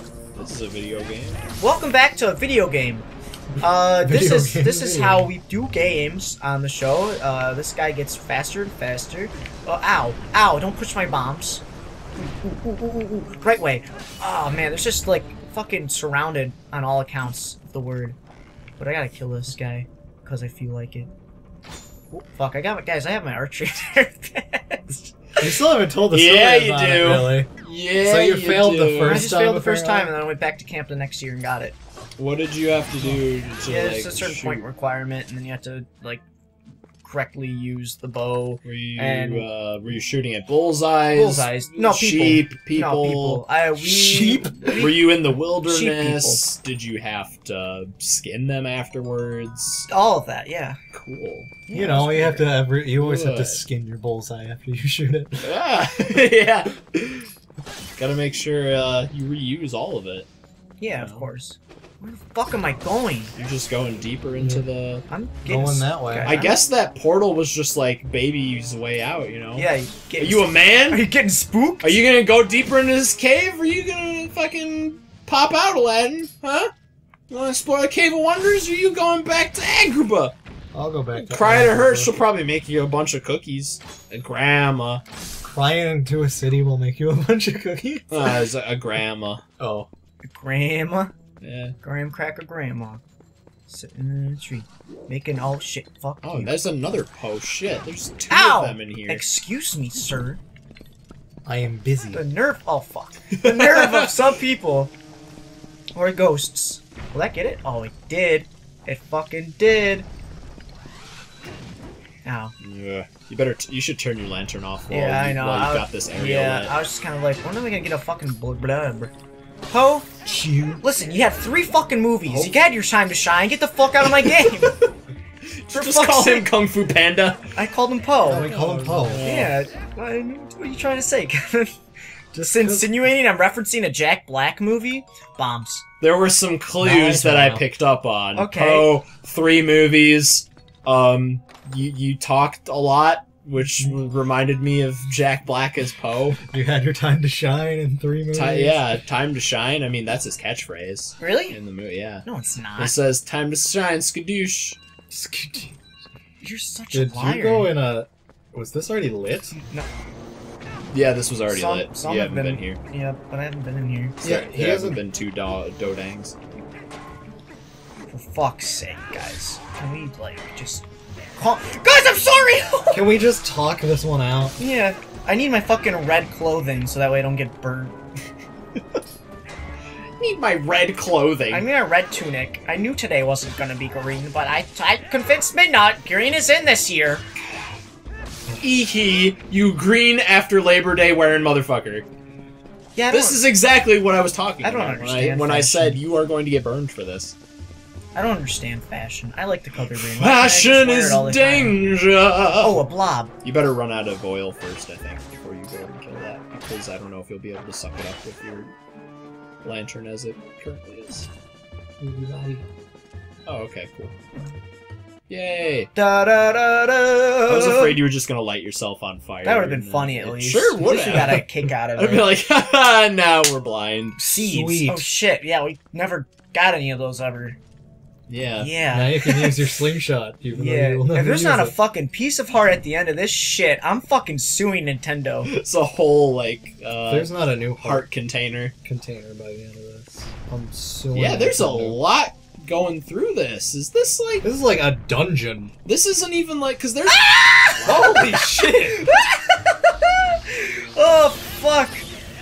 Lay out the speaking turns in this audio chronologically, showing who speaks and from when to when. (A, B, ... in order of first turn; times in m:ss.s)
0:00.4-0:01.4 A
0:01.6-0:03.1 B
0:03.6-0:11.6 B
0:04.0-0:05.3 C
0:12.2-0:18.2 B
0:18.8-0:21.1 B
0:22.1-0:25.2 B
0:25.4-0:30.1 C
0:26.1-0:29.3 A
0:29.0-0:31.8 B
0:32.2-0:34.6 A
0:33.1-0:36.2 B
0:37.0-0:39.5 B
0:38.6-0:43.4 A
0:41.1-0:46.4 B
0:43.8-0:44.9 C
0:44.8-0:49.9 A
0:49.9-0:50.8 B
0:50.9-0:51.5 A
0:51.7-0:52.6 B
0:51.7-0:55.5 C
0:52.9-0:53.6 A
0:55.4-0:57.3 A
0:58.0-1:00.3 A
1:00.8-1:03.3 B
1:00.9-1:01.3 A
1:03.4-1:05.0 A
1:04.4-1:04.7 C
1:05.1-1:06.6 B
1:05.5-1:06.5 C
1:06.2-1:11.1 A
1:09.6-1:12.0 B
1:11.8-1:16.7 A
1:17.3-1:20.3 A
1:20.7-1:22.2 C
1:21.1-1:25.0 A
1:25.4-1:28.5 C
1:28.1-1:29.4 A
1:29.6-1:29.9 C
1:30.2-1:31.1 B
1:31.4-1:31.8 A
1:31.8-1:33.0 B
1:33.7-1:36.6 B
1:36.2-1:39.3 A
1:38.3-1:40.4 B
1:41.4-1:42.2 C
1:42.1-1:44.9 B
1:43.3-1:44.1 A
1:46.0-1:50.1 B
1:52.2-1:52.5 B
1:52.6-1:56.7 A
1:54.9-1:59.1 B
1:59.7-2:00.1 B
2:00.2-2:00.8 C
2:00.8-2:04.8 B
2:02.3-2:02.6 A
2:04.0-2:04.8 A
2:05.7-2:07.5 A
2:05.7-2:06.5 B
2:07.6-2:08.5 B
2:08.3-2:09.3 C
2:08.4-2:09.6 A
2:09.2-2:11.8 B
2:12.3-2:15.9 B
2:12.6-2:13.0 C
2:16.0-2:26.4 A
2:16.8-2:17.7 C
2:18.3-2:19.0 B
2:26.4-2:29.0 C
2:28.3-2:34.8 A
2:31.2-2:31.6 B
2:32.2-2:33.0 B
2:35.1-2:35.8 C
2:36.4-2:37.7 B
2:36.9-2:39.5 C
2:39.5-2:39.9 B
2:40.9-2:42.8 A
2:41.5-2:44.2 B
2:44.2-2:46.4 A
2:44.2-2:45.0 C
2:48.1-2:53.1 B
2:52.9-2:54.6 C
2:54.6-2:58.0 B
3:00.2-3:01.7 A
3:01.5-3:07.2 B
3:08.6-3:12.1 A
3:13.0-3:13.4 B
3:13.1-3:17.4 A
3:14.6-3:16.0 B
3:18.1-3:21.8 B
3:19.9-3:22.8 A
3:22.6-3:23.3 B
3:23.4-3:28.7 A
3:29.6-3:31.3 A
3:32.0-3:32.7 C
3:33.5-3:34.2 A
3:35.3-3:35.9 A
3:36.0-3:38.0 B
3:37.5-3:44.2 A
3:39.4-3:42.3 B
3:44.2-3:47.6 B
3:44.4-3:45.1 C
3:48.3-3:48.7 A
3:48.6-3:49.6 B
3:48.9-3:51.7 C
3:50.5-3:55.5 B
3:55.5-3:58.7 A
3:57.0-3:58.1 C
3:58.8-4:02.0 C
4:01.1-4:04.5 A
4:04.4-4:05.7 C
4:05.8-4:07.2 A
4:07.1-4:12.1 B
4:07.8-4:08.2 A
4:07.8-4:09.1 C